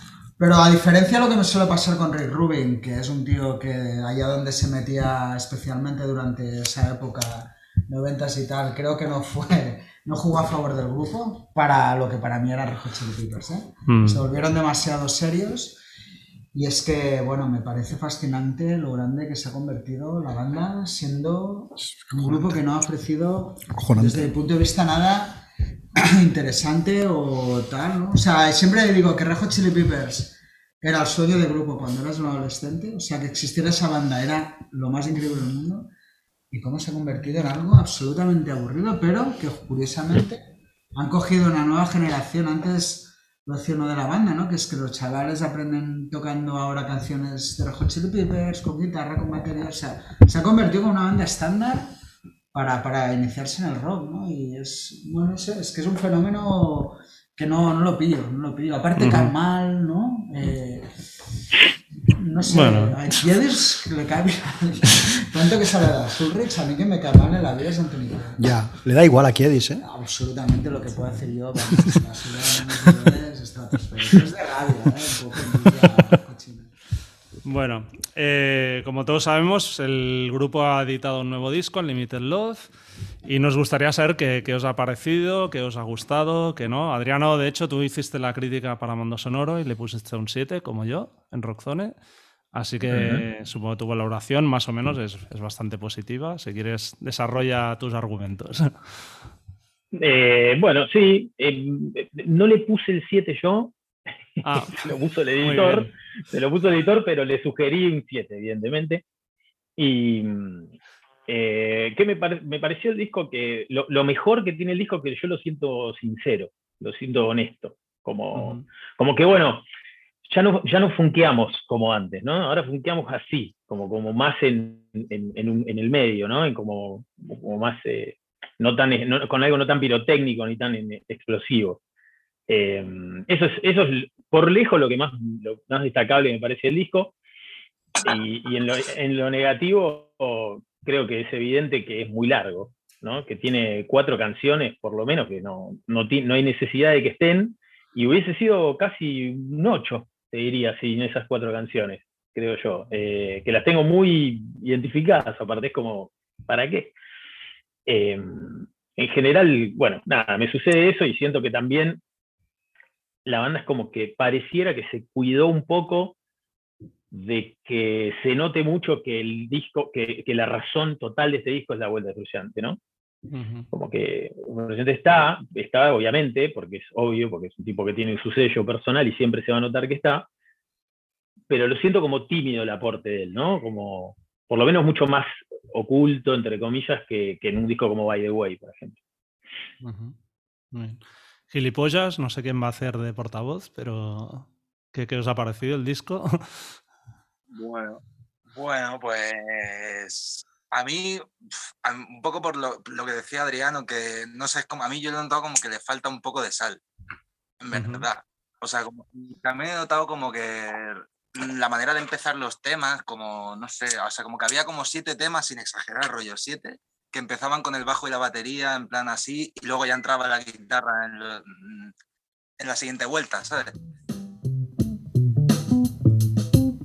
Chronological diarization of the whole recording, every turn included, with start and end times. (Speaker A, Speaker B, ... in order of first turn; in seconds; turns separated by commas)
Speaker A: 0.4-15.8, Speaker B: 13.9-14.2, Speaker A: 16.5-35.9, Speaker C: 22.0-22.6, Speaker C: 23.7-24.3, Speaker A: 36.5-40.4, Speaker A: 40.9-51.9, Speaker A: 52.5-60.9, Speaker B: 59.0-59.3, Speaker A: 62.0-68.5, Speaker B: 62.5-62.9, Speaker C: 68.4-69.8, Speaker A: 69.8-76.7, Speaker B: 77.4-82.7, Speaker B: 83.2-91.9, Speaker B: 92.5-98.8, Speaker D: 92.9-93.2, Speaker D: 99.9-103.7, Speaker D: 104.4-109.0, Speaker B: 104.4-105.9, Speaker D: 109.8-110.7, Speaker D: 111.3-119.7, Speaker B: 118.3-118.6, Speaker D: 120.2-131.8, Speaker D: 132.5-137.1, Speaker D: 138.0-156.9, Speaker D: 157.8-162.0, Speaker D: 163.2-166.1, Speaker D: 167.1-172.8, Speaker B: 173.3-173.7, Speaker D: 173.7-180.2, Speaker D: 181.5-189.0, Speaker B: 189.8-190.1, Speaker B: 190.7-196.7, Speaker E: 197.5-198.0, Speaker E: 198.5-206.8, Speaker E: 207.6-221.9, Speaker B: 207.7-208.0, Speaker E: 222.6-223.7